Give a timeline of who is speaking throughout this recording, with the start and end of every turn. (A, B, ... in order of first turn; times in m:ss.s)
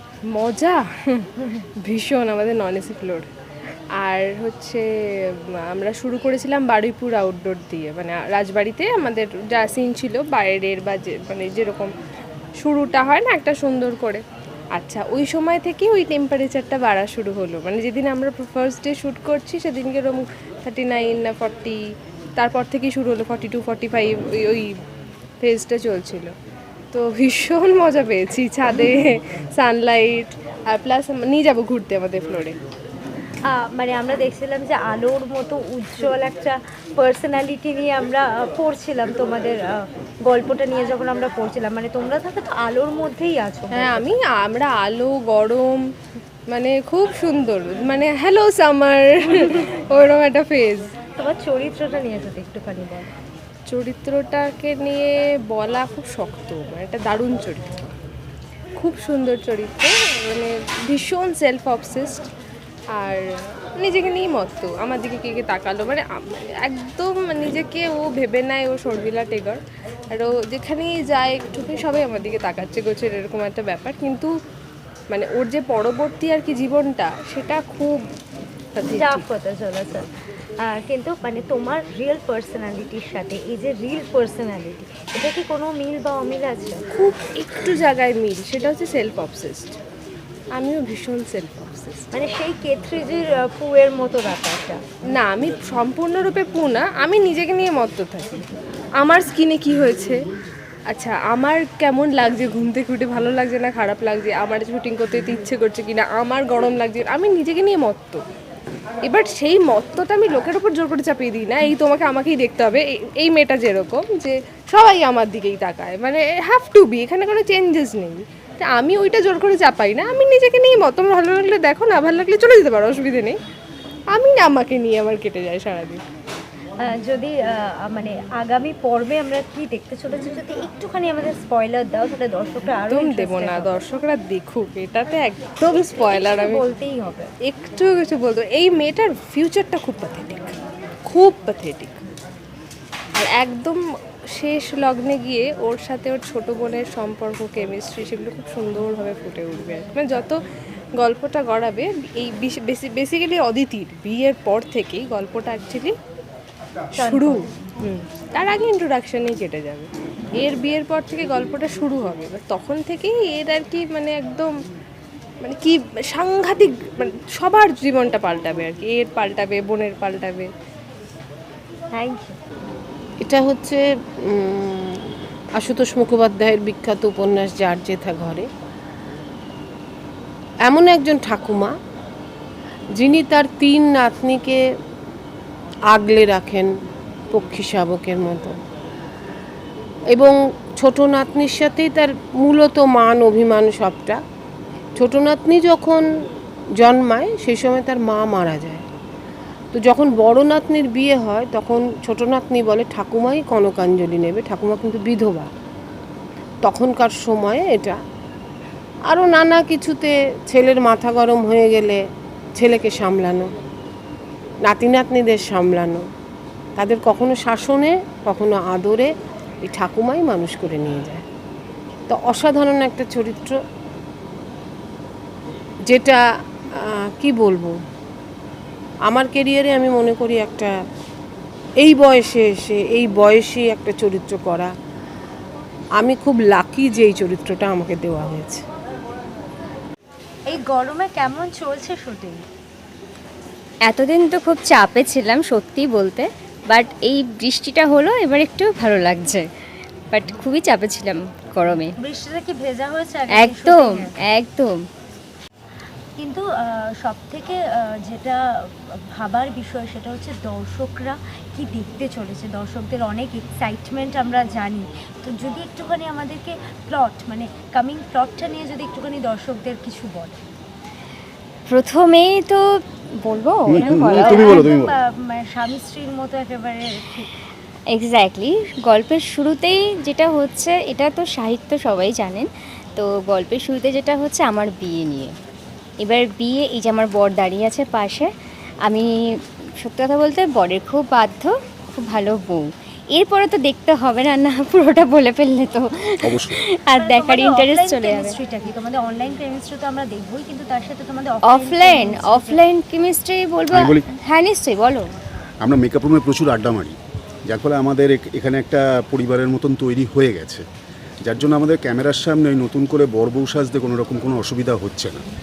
0:00.3-0:03.3 A
0:04.0-0:11.9 A
0:12.6-0:21.8 A
0:22.4-0:24.8 A
0:25.4-0:26.3 A
0:26.9-0:32.6 A
0:33.5-0:44.2 B
0:43.7-0:45.9 A
0:46.5-0:50.9 A
0:51.2-0:53.1 B
0:53.7-0:57.9 A
0:58.8-1:02.3 A
1:02.9-1:14.3 A
1:15.1-1:18.1 A
1:18.8-1:19.3 A
1:18.9-1:20.1 B
1:20.6-1:26.8 B
1:26.9-1:29.8 A
1:30.6-1:32.1 A
1:32.1-1:34.8 B
1:35.1-1:38.5 A
1:39.0-1:40.2 A
1:40.9-1:48.2 A
1:49.0-2:03.4 A
2:04.1-2:06.0 A
2:06.8-2:13.8 B
2:12.9-2:16.6 A
2:16.0-2:17.3 B
2:17.4-2:22.0 A
2:23.2-2:23.8 A
2:24.4-2:30.4 A
2:31.0-2:36.0 A
2:37.0-2:44.5 A
2:37.0-2:37.7 B
2:45.4-2:50.5 A
2:51.9-2:52.4 B
2:53.2-2:58.5 C
3:00.6-3:01.7 C
3:03.0-3:04.6 C
3:05.9-3:06.7 C
3:07.3-3:08.6 C
3:10.1-3:14.2 C
3:15.0-3:16.1 C
3:16.8-3:18.8 C
3:19.7-3:25.5 C
3:26.6-3:28.0 C
3:29.1-3:32.0 C
3:32.6-3:33.5 C
3:34.6-3:36.0 C
3:36.8-3:39.1 C
3:39.6-3:41.2 C
3:42.1-3:43.6 C
3:45.9-3:46.2 C
3:46.8-3:47.8 C
3:49.1-3:50.8 C
3:51.8-3:54.7 C
3:56.0-3:58.6 C
4:00.5-4:02.4 B
4:03.9-4:09.4 D
4:10.1-4:11.9 D
4:12.0-4:14.1 B
4:13.3-4:14.7 D
4:16.2-4:30.4 B
4:31.7-4:32.6 D
4:33.2-4:34.7 D
4:33.7-4:35.0 E
4:33.8-4:37.3 B
4:37.9-4:45.3 D
4:46.0-4:48.3 D
4:48.8-4:49.1 D
4:49.8-4:58.4 D
4:56.2-4:56.6 E
4:56.9-5:02.6 B
5:01.4-5:05.1 D
5:03.7-5:04.0 E
5:05.6-5:10.6 E
5:11.2-5:15.2 E